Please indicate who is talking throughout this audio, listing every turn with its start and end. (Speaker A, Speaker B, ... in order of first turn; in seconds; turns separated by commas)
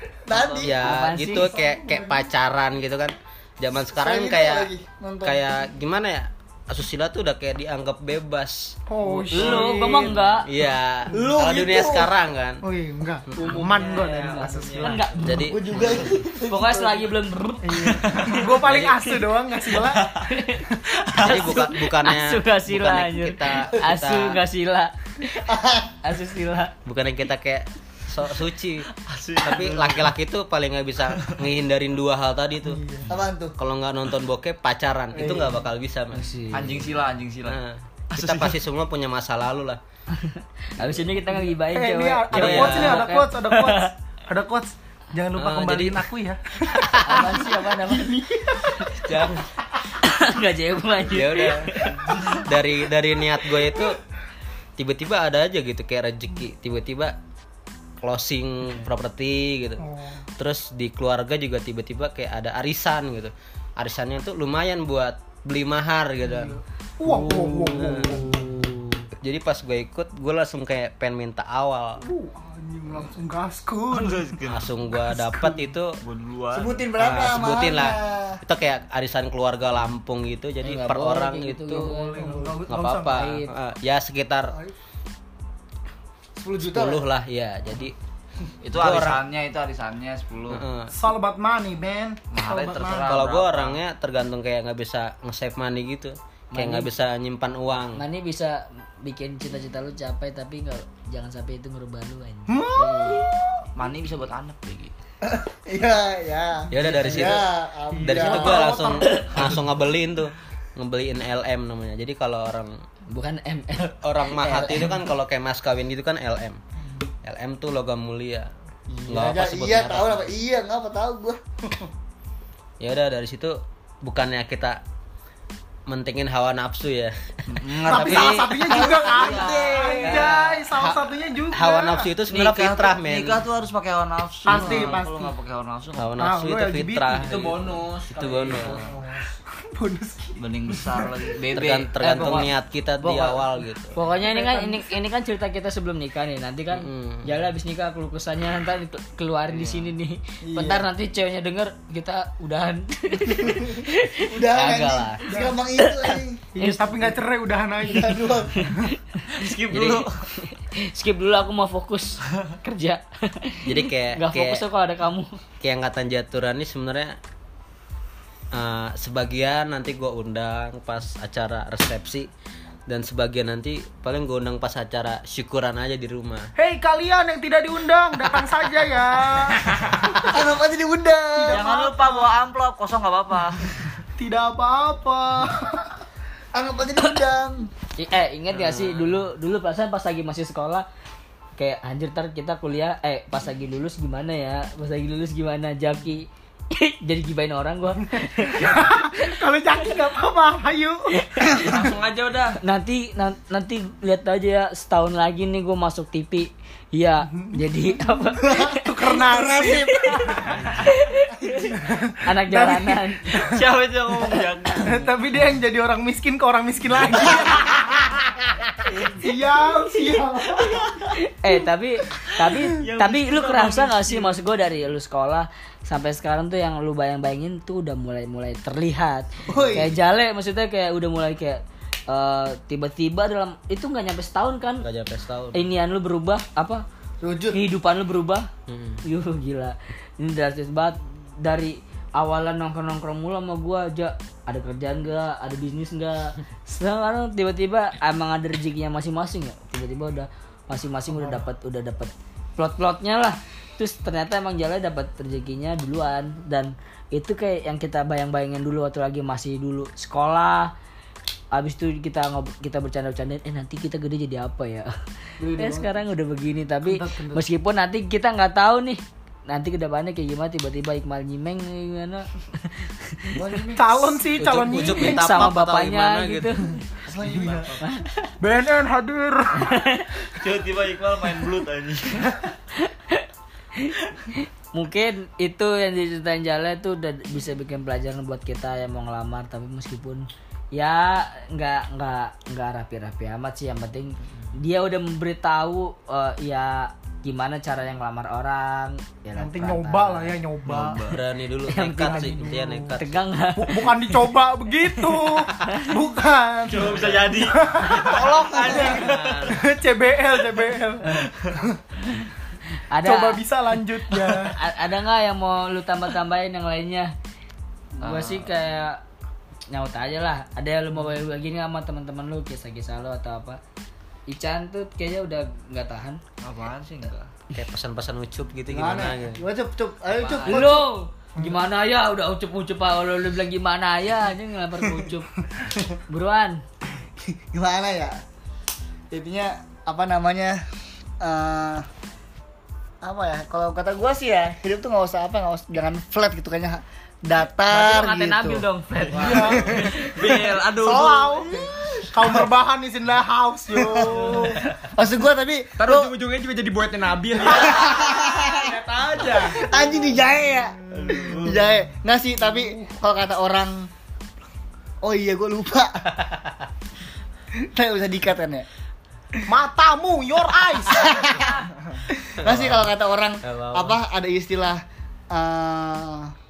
Speaker A: 0.3-0.9, Speaker B: 0.3-0.6, Speaker C: 0.5-4.7, Speaker D: 0.8-1.6, Speaker E: 1.8-2.1, Speaker A: 3.9-5.5, Speaker C: 5.2-8.8, Speaker E: 8.9-10.3, Speaker D: 9.3-10.5, Speaker C: 9.4-9.7, Speaker C: 10.5-12.6, Speaker A: 11.1-12.1, Speaker E: 12.6-15.1, Speaker C: 13.3-13.6, Speaker F: 13.4-15.2, Speaker D: 14.0-15.5, Speaker C: 15.2-16.0, Speaker A: 15.3-16.8, Speaker D: 16.4-18.3, Speaker E: 17.6-21.0, Speaker C: 18.6-19.0, Speaker D: 20.2-20.6, Speaker C: 21.1-24.4, Speaker D: 21.1-25.4, Speaker A: 25.4-25.9, Speaker D: 26.0-26.7, Speaker C: 26.8-28.9, Speaker B: 29.0-30.1, Speaker C: 29.4-32.8, Speaker E: 32.7-33.1, Speaker A: 33.1-33.5, Speaker C: 33.6-36.8, Speaker E: 35.2-35.5, Speaker D: 36.1-36.8, Speaker B: 36.5-37.6, Speaker C: 37.5-39.8, Speaker B: 38.1-38.6, Speaker D: 40.1-43.9, Speaker E: 41.3-49.0, Speaker C: 42.3-43.1, Speaker C: 45.4-46.0, Speaker C: 46.7-47.3, Speaker D: 47.0-48.9, Speaker C: 48.9-49.5, Speaker D: 49.9-52.1, Speaker C: 51.1-54.0, Speaker E: 52.0-52.4, Speaker C: 54.8-57.1, Speaker C: 58.0-59.8, Speaker E: 59.8-60.2, Speaker C: 60.4-66.6, Speaker E: 66.2-68.6, Speaker D: 67.1-69.0, Speaker C: 67.7-68.3, Speaker C: 69.2-72.0, Speaker E: 72.0-74.3, Speaker B: 73.9-74.7, Speaker C: 74.5-76.0, Speaker E: 75.1-75.6, Speaker B: 76.0-76.8, Speaker A: 76.5-78.4, Speaker C: 77.0-81.9, Speaker D: 80.6-82.5, Speaker E: 81.8-83.3, Speaker C: 82.7-84.5, Speaker D: 83.1-83.5, Speaker A: 86.4-87.0, Speaker C: 86.6-87.9, Speaker B: 88.6-90.6, Speaker C: 88.7-89.2, Speaker C: 90.5-90.9, Speaker E: 90.9-93.2, Speaker B: 92.3-93.8, Speaker C: 93.0-98.0, Speaker D: 96.5-96.9, Speaker D: 97.9-103.3, Speaker E: 102.5-103.7, Speaker B: 103.8-104.9, Speaker A: 105.2-108.7, Speaker C: 106.7-107.5, Speaker E: 107.9-109.6, Speaker C: 108.0-112.8, Speaker D: 113.1-115.0, Speaker C: 114.0-116.6, Speaker C: 117.2-118.5, Speaker A: 118.9-121.4, Speaker C: 119.1-120.3, Speaker C: 122.8-124.8, Speaker C: 125.9-128.3, Speaker B: 127.5-130.2, Speaker E: 127.8-132.1, Speaker A: 128.8-129.5, Speaker C: 130.0-133.4, Speaker B: 132.3-136.1, Speaker E: 134.4-135.3, Speaker C: 134.6-134.9, Speaker C: 136.0-138.8, Speaker E: 136.2-137.8, Speaker F: 137.3-138.8, Speaker E: 138.7-141.4, Speaker B: 140.4-142.5, Speaker C: 141.5-143.9, Speaker D: 142.0-142.5, Speaker D: 143.0-143.4, Speaker D: 143.9-155.1, Speaker E: 144.2-144.9, Speaker C: 146.7-147.3, Speaker B: 149.5-149.9, Speaker A: 150.5-150.9, Speaker A: 154.3-156.4, Speaker C: 154.5-155.2, Speaker E: 155.2-155.5, Speaker D: 155.8-156.9, Speaker E: 156.5-158.9, Speaker A: 157.9-158.6, Speaker D: 159.2-165.3, Speaker B: 159.3-160.1, Speaker C: 163.7-164.6, Speaker C: 165.6-167.2, Speaker C: 168.5-172.3, Speaker C: 172.9-176.5, Speaker E: 176.6-179.8, Speaker A: 180.2-181.7, Speaker E: 181.3-182.3, Speaker B: 181.5-183.8, Speaker E: 184.2-185.9, Speaker A: 186.5-187.7, Speaker D: 188.0-190.8, Speaker C: 188.5-189.2, Speaker D: 191.6-199.2, Speaker E: 198.4-201.9, Speaker D: 201.1-201.6, Speaker F: 201.6-202.6, Speaker D: 202.6-208.8, Speaker E: 208.4-210.6, Speaker A: 209.2-210.5, Speaker D: 210.8-211.7, Speaker E: 211.7-213.6, Speaker D: 212.2-213.4, Speaker B: 213.4-215.0, Speaker E: 214.8-218.0, Speaker E: 218.9-220.9, Speaker D: 221.2-234.8, Speaker B: 222.7-224.4, Speaker A: 229.5-229.9, Speaker C: 234.8-235.6, Speaker D: 235.5-236.8, Speaker A: 237.2-237.6, Speaker D: 237.5-238.5, Speaker C: 238.7-239.0, Speaker D: 239.0-260.7, Speaker E: 251.1-251.4, Speaker D: 261.5-264.9, Speaker E: 265.4-265.9, Speaker D: 265.5-272.9, Speaker E: 266.8-267.4, Speaker A: 273.3-274.2, Speaker E: 273.7-275.3, Speaker C: 274.4-276.5, Speaker D: 274.8-276.6, Speaker A: 277.1-277.7, Speaker E: 277.3-277.7, Speaker B: 277.3-277.7, Speaker D: 277.8-278.3, Speaker E: 278.4-279.9, Speaker D: 279.6-280.1, Speaker B: 280.3-282.3, Speaker D: 282.8-283.2, Speaker D: 283.8-300.3, Speaker E: 299.3-301.0, Speaker C: 300.6-303.2, Speaker D: 301.6-303.9, Speaker E: 302.0-302.9, Speaker E: 303.6-311.8, Speaker B: 306.7-309.4, Speaker C: 306.9-307.2, Speaker F: 308.1-308.6, Speaker C: 308.2-309.6, Speaker D: 312.9-313.4, Speaker E: 313.0-314.6, Speaker D: 314.3-317.1, Speaker D: 318.0-319.0, Speaker B: 318.0-318.5, Speaker D: 319.7-323.6, Speaker D: 324.3-326.2, Speaker B: 326.4-327.3, Speaker C: 327.5-329.4, Speaker A: 328.7-330.8, Speaker D: 330.3-335.3, Speaker D: 336.1-336.6, Speaker A: 337.3-338.2, Speaker A: 339.1-340.6, Speaker A: 341.2-341.9, Speaker A: 343.0-348.6, Speaker D: 347.7-349.8, Speaker E: 349.1-349.9, Speaker A: 349.4-352.5, Speaker B: 349.9-351.1, Speaker E: 350.8-354.6, Speaker A: 353.7-354.3, Speaker A: 354.9-356.2, Speaker F: 355.8-356.5, Speaker A: 357.4-358.8, Speaker F: 358.6-359.4, Speaker A: 359.3-363.9, Speaker B: 360.9-361.6, Speaker A: 365.0-366.0, Speaker C: 366.1-366.7, Speaker A: 367.6-368.6, Speaker E: 369.5-371.1, Speaker A: 370.9-371.5, Speaker D: 371.2-371.5, Speaker A: 372.1-376.3, Speaker C: 372.4-372.9, Speaker C: 373.4-374.0